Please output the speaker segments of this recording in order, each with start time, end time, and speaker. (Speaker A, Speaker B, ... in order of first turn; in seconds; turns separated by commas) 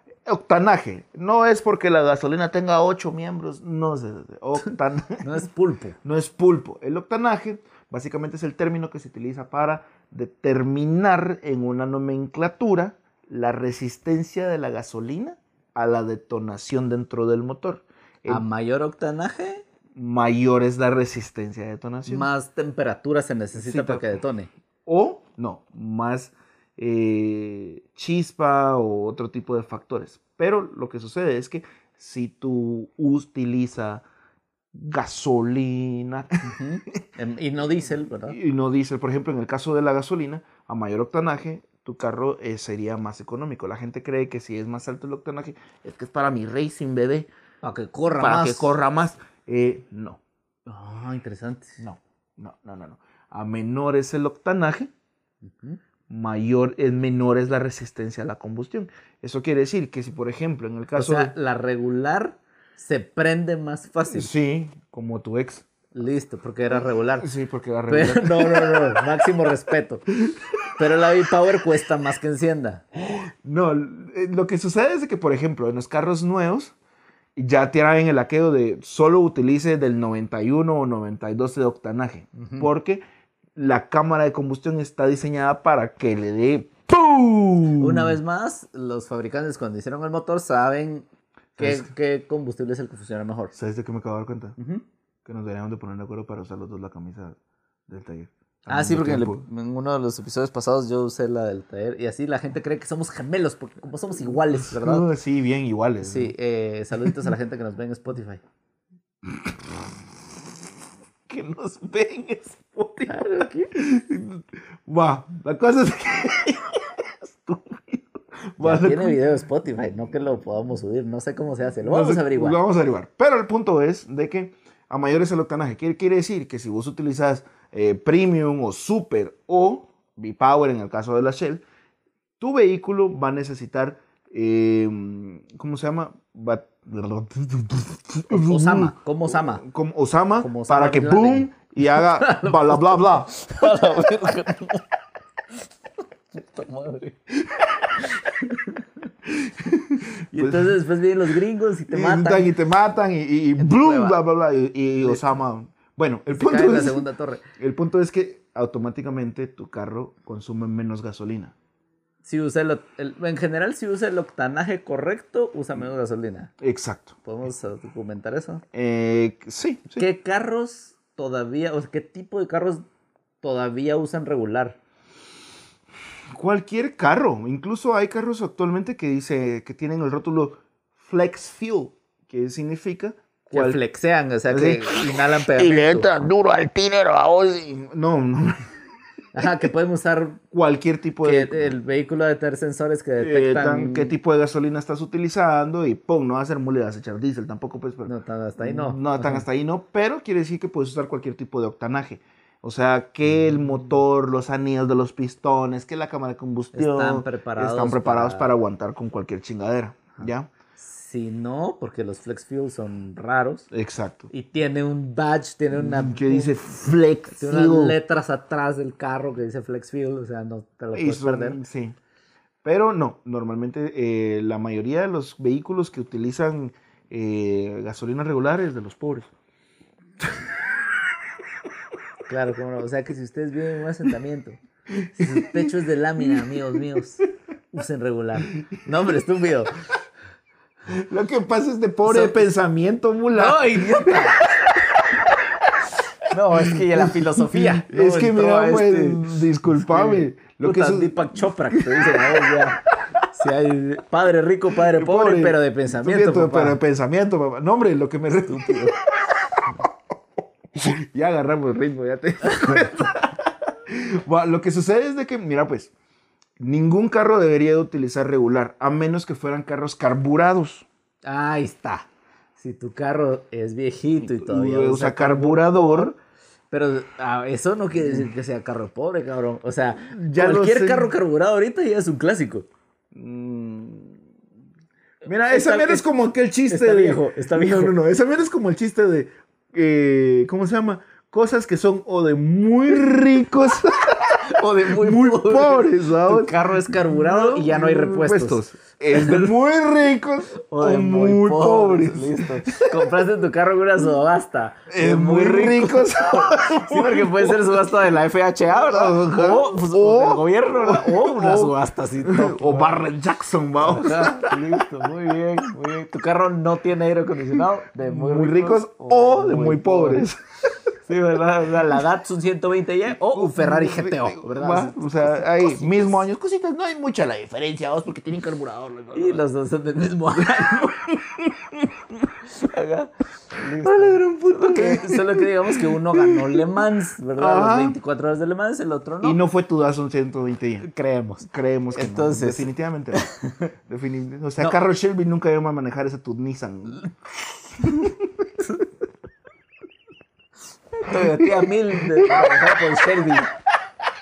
Speaker A: 0.2-5.4, Speaker B: 5.2-6.0, Speaker A: 6.0-18.4, Speaker B: 18.3-19.6, Speaker A: 19.9-22.3, Speaker B: 22.1-24.5, Speaker A: 23.5-24.2, Speaker A: 24.9-34.0, Speaker A: 34.7-37.0, Speaker B: 36.4-38.4, Speaker A: 38.3-47.3, Speaker B: 47.6-48.8, Speaker A: 48.2-50.2, Speaker B: 50.7-51.8, Speaker A: 51.8-54.9, Speaker B: 55.4-55.8, Speaker A: 56.1-61.3, Speaker B: 60.9-64.3, Speaker A: 64.1-65.7, Speaker B: 65.9-67.3, Speaker A: 66.7-69.3, Speaker B: 67.9-70.0, Speaker A: 70.2-70.7, Speaker B: 70.8-72.8, Speaker A: 72.9-76.7, Speaker A: 77.3-83.0, Speaker B: 82.3-82.7, Speaker A: 83.5-88.2, Speaker B: 87.8-93.5, Speaker A: 91.6-91.9, Speaker A: 93.5-94.6, Speaker B: 94.6-94.8, Speaker A: 95.2-97.4, Speaker A: 97.9-99.4, Speaker B: 98.7-105.1, Speaker A: 104.6-106.3, Speaker B: 106.0-108.4, Speaker A: 109.2-109.6, Speaker A: 111.3-119.2, Speaker B: 113.1-113.7, Speaker B: 118.6-122.6, Speaker A: 121.8-131.6, Speaker A: 132.4-144.0, Speaker B: 138.3-139.6, Speaker B: 140.4-144.9, Speaker B: 146.3-147.2, Speaker A: 147.4-148.2, Speaker B: 148.0-148.9, Speaker A: 149.2-150.8, Speaker B: 150.3-152.6, Speaker A: 151.9-157.0, Speaker B: 153.6-154.2, Speaker B: 156.3-157.4, Speaker A: 157.6-161.6, Speaker B: 162.2-166.5, Speaker A: 166.6-167.2, Speaker B: 167.2-168.6, Speaker A: 168.7-170.1, Speaker B: 170.0-172.8, Speaker B: 173.4-174.8, Speaker A: 176.3-183.8, Speaker B: 183.5-186.1, Speaker A: 184.5-188.7, Speaker B: 189.3-190.4, Speaker A: 190.5-191.8, Speaker B: 191.2-194.1, Speaker A: 193.2-210.5, Speaker B: 198.1-199.4, Speaker B: 206.7-208.6, Speaker B: 210.2-213.7, Speaker A: 213.7-214.3, Speaker B: 214.3-216.6, Speaker A: 215.7-218.0, Speaker B: 217.3-221.6, Speaker A: 220.9-221.9, Speaker A: 222.6-229.3, Speaker B: 232.3-234.6, Speaker A: 234.9-236.5, Speaker B: 235.1-239.8, Speaker A: 240.9-245.9, Speaker B: 242.1-242.5, Speaker B: 243.3-244.6, Speaker B: 246.3-256.8, Speaker A: 246.7-253.2, Speaker A: 254.8-259.9, Speaker B: 258.3-259.0, Speaker A: 260.7-265.9, Speaker B: 262.4-262.9, Speaker A: 266.6-270.9, Speaker B: 271.2-276.1, Speaker A: 274.2-276.2, Speaker B: 276.7-282.7, Speaker A: 278.0-278.3, Speaker A: 280.1-281.1, Speaker A: 283.1-284.2, Speaker A: 285.2-303.1, Speaker B: 285.5-286.1, Speaker B: 286.7-287.9, Speaker B: 294.3-299.5, Speaker B: 300.6-312.9, Speaker A: 304.9-307.8, Speaker A: 308.7-314.9, Speaker B: 313.8-320.2, Speaker A: 318.0-320.8, Speaker B: 321.1-326.1, Speaker A: 323.2-329.4, Speaker B: 329.1-331.0, Speaker A: 330.4-332.3, Speaker B: 332.5-339.4, Speaker A: 333.8-336.8, Speaker A: 337.4-338.0, Speaker A: 339.2-340.9, Speaker B: 340.8-343.7, Speaker A: 341.4-347.1, Speaker A: 347.8-348.6, Speaker B: 351.0-353.5, Speaker A: 351.0-353.4